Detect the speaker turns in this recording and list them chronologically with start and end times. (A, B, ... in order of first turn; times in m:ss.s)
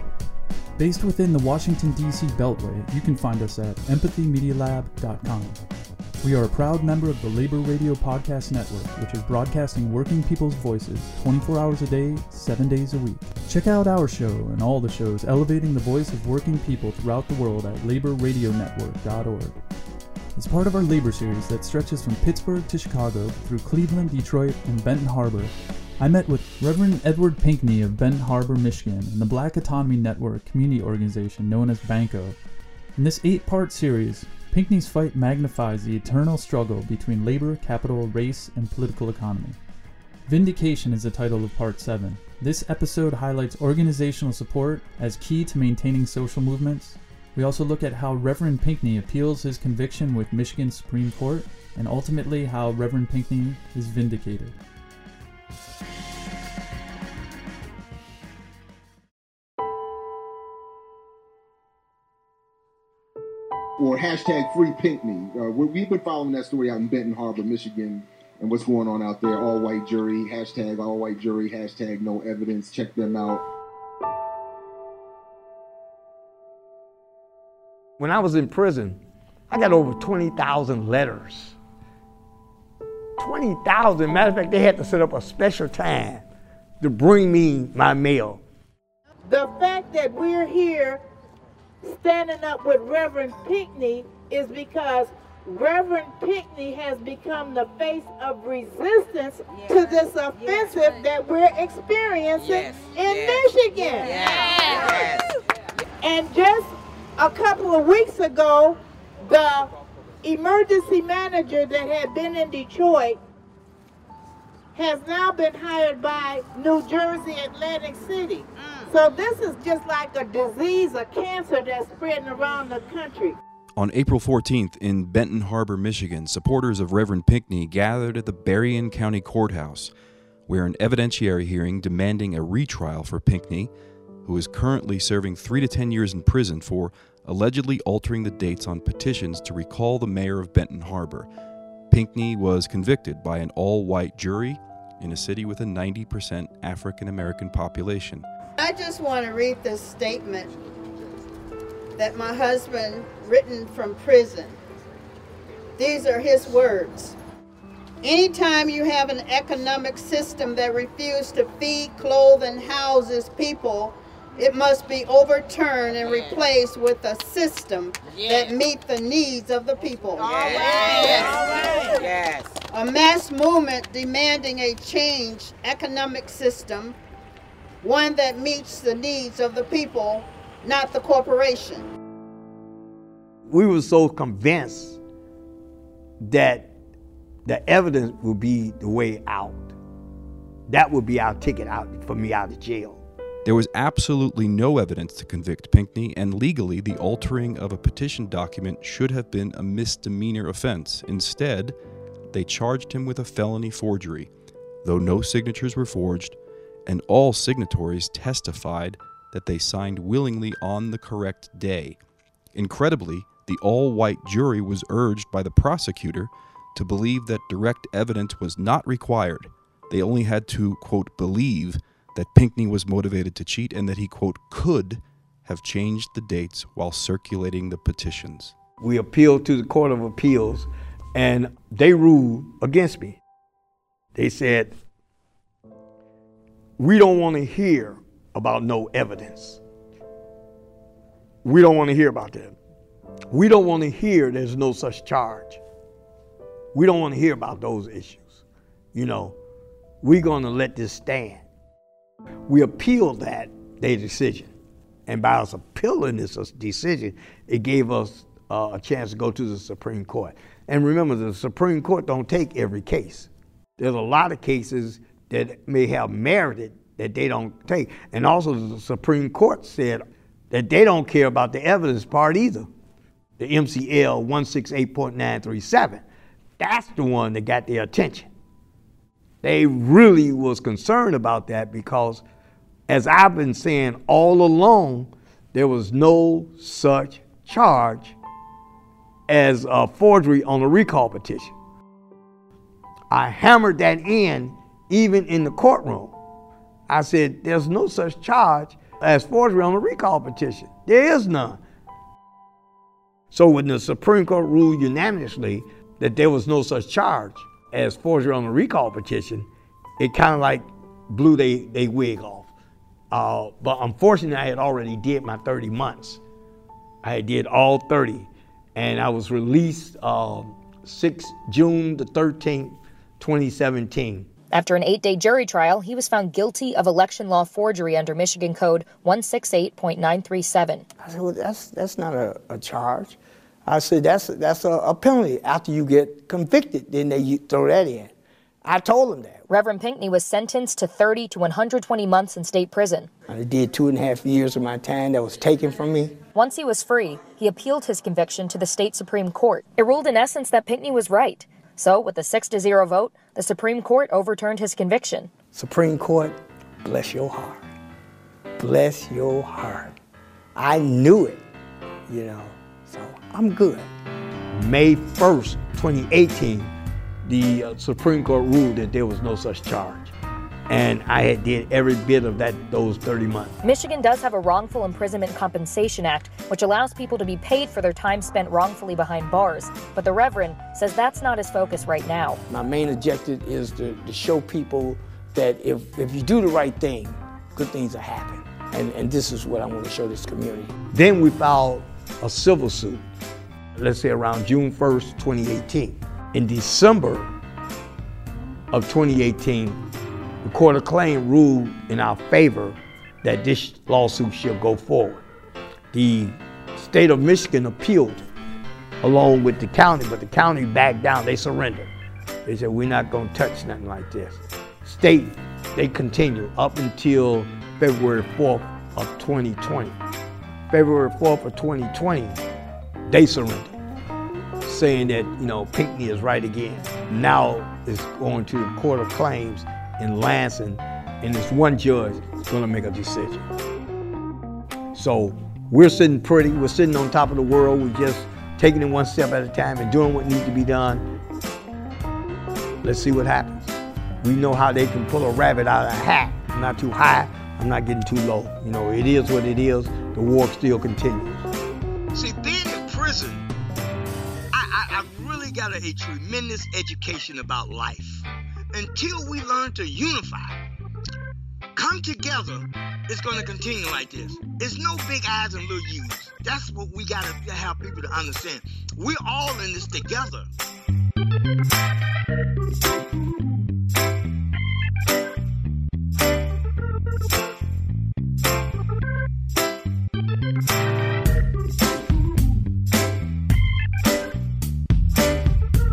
0:00.8-0:05.6 A
0:06.2-0:19.6 A
0:20.4-0:32.4 A
0:33.0-0:39.6 A
0:40.3-0:54.6 A
1:03.8-1:13.4 B
1:18.0-1:19.0 C
1:19.5-1:21.6 C
1:23.2-1:26.2 C
1:26.8-1:28.4 C
1:29.2-1:31.0 D
1:31.8-1:45.2 D
1:46.0-1:49.7 D
1:50.2-1:53.2 D
1:54.8-2:03.4 D
2:03.8-2:09.9 E
2:10.5-2:13.7 E
2:14.2-2:21.3 E
2:21.9-2:28.3 E
2:28.6-2:30.5 F
2:32.0-2:34.6 F
2:35.8-2:37.2 F
2:38.0-2:52.1 F
2:52.7-2:57.0 F
2:57.8-3:01.9 F
3:03.5-3:05.0 C
3:06.2-3:06.7 C
3:07.5-3:09.7 C
3:10.7-3:13.0 C
3:13.4-3:21.8 E
3:22.3-3:24.3 E
3:24.8-3:32.0 E
3:32.6-3:48.6 E
3:48.8-3:53.2 C
3:54.2-3:54.7 C
3:56.8-3:59.6 C
4:01.4-4:02.6 C
4:03.3-4:05.6 C
4:06.7-4:08.4 C
4:08.9-4:09.4 C
4:10.0-4:11.4 C
4:12.5-4:14.5 C
4:15.1-4:32.7 C
4:33.4-4:36.0 C
4:36.6-4:38.3 C
4:39.4-4:42.2 C
4:42.9-4:48.2 C
4:49.3-4:51.5 C
4:53.1-4:56.2 C
4:56.9-5:01.6 C
5:03.3-5:09.5 C
5:10.0-5:12.5 C
5:13.1-5:16.2 C
5:17.0-5:24.3 C
5:24.5-5:30.8 G
5:31.4-5:32.2 C
5:33.7-5:38.1 H
5:39.5-5:43.1 G
5:44.3-5:46.2 H
5:46.4-5:55.3 G
5:56.9-5:57.4 H
5:59.5-5:59.9 H
6:00.6-6:01.0 H
6:02.2-6:03.8 H
6:04.5-6:06.7 C
6:07.3-6:10.1 C
6:10.7-6:13.6 C
6:13.6-6:22.4 G
6:22.5-6:30.7 H
6:30.9-6:33.0 C
6:33.8-6:37.3 C
6:38.7-6:39.8 C
6:40.4-6:45.2 C
6:45.9-6:48.3 C
6:49.0-6:51.9 C
6:52.5-7:00.0 C
7:00.7-7:02.4 C
7:03.1-7:03.8 C
7:04.6-7:13.5 C
7:14.9-7:21.1 C
7:22.8-7:31.5 C
7:32.2-7:33.4 I
7:34.5-7:38.2 I
7:38.8-7:40.6 I
7:41.8-7:50.4 I